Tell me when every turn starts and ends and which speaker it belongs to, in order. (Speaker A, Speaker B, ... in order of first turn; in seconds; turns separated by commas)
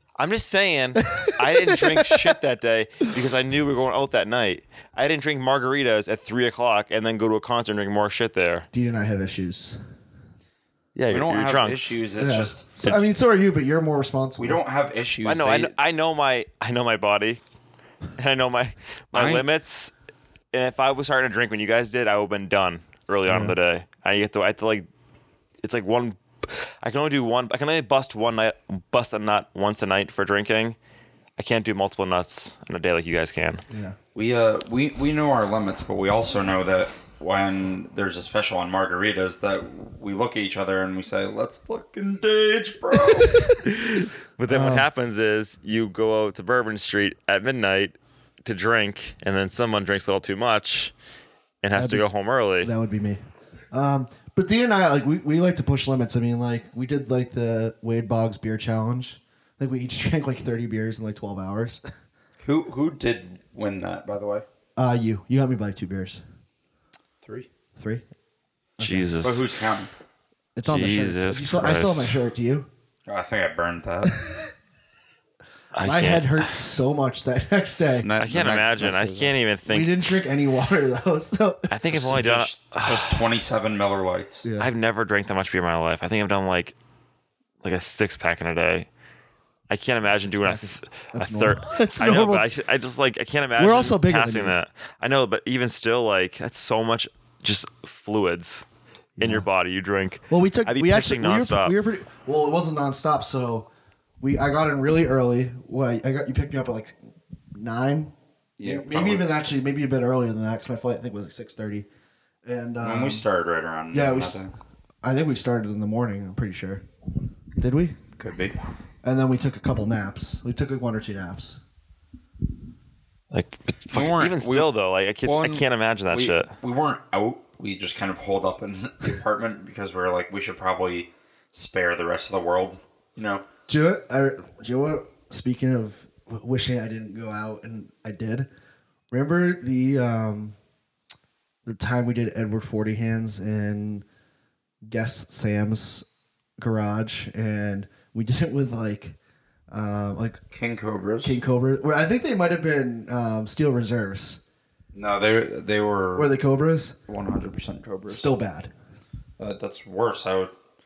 Speaker A: 0.2-8.7, Speaker B: 1.1-2.3, Speaker B: 8.7-9.8, Speaker A: 10.9-12.0, Speaker C: 11.1-13.0, Speaker B: 12.2-14.6, Speaker C: 14.4-15.7, Speaker A: 15.2-17.4, Speaker A: 18.1-19.9, Speaker C: 19.1-19.5, Speaker A: 20.5-24.9, Speaker B: 23.3-23.6, Speaker A: 25.6-30.8, Speaker A: 31.4-33.6, Speaker B: 33.7-34.0, Speaker C: 34.1-43.5, Speaker A: 43.6-50.9, Speaker B: 44.5-44.9, Speaker A: 51.6-52.7, Speaker B: 51.8-52.0, Speaker B: 52.6-53.2, Speaker B: 53.7-61.8, Speaker C: 62.4-64.4, Speaker B: 64.8-66.2, Speaker C: 67.2-67.5, Speaker B: 67.8-68.0, Speaker B: 68.8-69.1, Speaker A: 68.8-69.5, Speaker C: 69.2-69.9, Speaker B: 70.5-72.7, Speaker A: 70.7-72.2, Speaker C: 73.1-74.2, Speaker A: 75.7-76.5, Speaker B: 75.8-78.1, Speaker C: 78.0-79.3, Speaker A: 78.2-80.0, Speaker B: 79.7-82.3, Speaker A: 81.7-83.2, Speaker C: 81.9-84.5, Speaker B: 84.4-84.7, Speaker A: 84.6-86.8, Speaker A: 87.6-88.9, Speaker A: 89.7-98.6, Speaker B: 90.2-92.5, Speaker B: 93.5-94.5, Speaker B: 99.2-99.5, Speaker A: 99.2-101.7, Speaker B: 100.3-103.7, Speaker B: 104.2-107.0, Speaker B: 107.5-111.9, Speaker C: 108.6-109.3, Speaker B: 112.4-113.2, Speaker C: 112.8-114.5, Speaker B: 113.9-114.4, Speaker B: 115.0-116.8, Speaker B: 117.6-118.0, Speaker C: 118.2-118.5, Speaker B: 119.0-121.6, Speaker A: 123.3-126.5, Speaker C: 123.9-124.7, Speaker C: 125.2-133.4, Speaker B: 133.7-138.5, Speaker B: 139.1-140.6, Speaker B: 141.6-144.0, Speaker B: 144.8-146.1, Speaker B: 146.6-149.2, Speaker B: 149.7-150.4, Speaker C: 150.5-151.4, Speaker B: 151.2-154.4, Speaker C: 154.9-156.3, Speaker B: 156.1-157.0, Speaker C: 157.1-158.3, Speaker B: 158.1-158.7, Speaker C: 159.4-160.5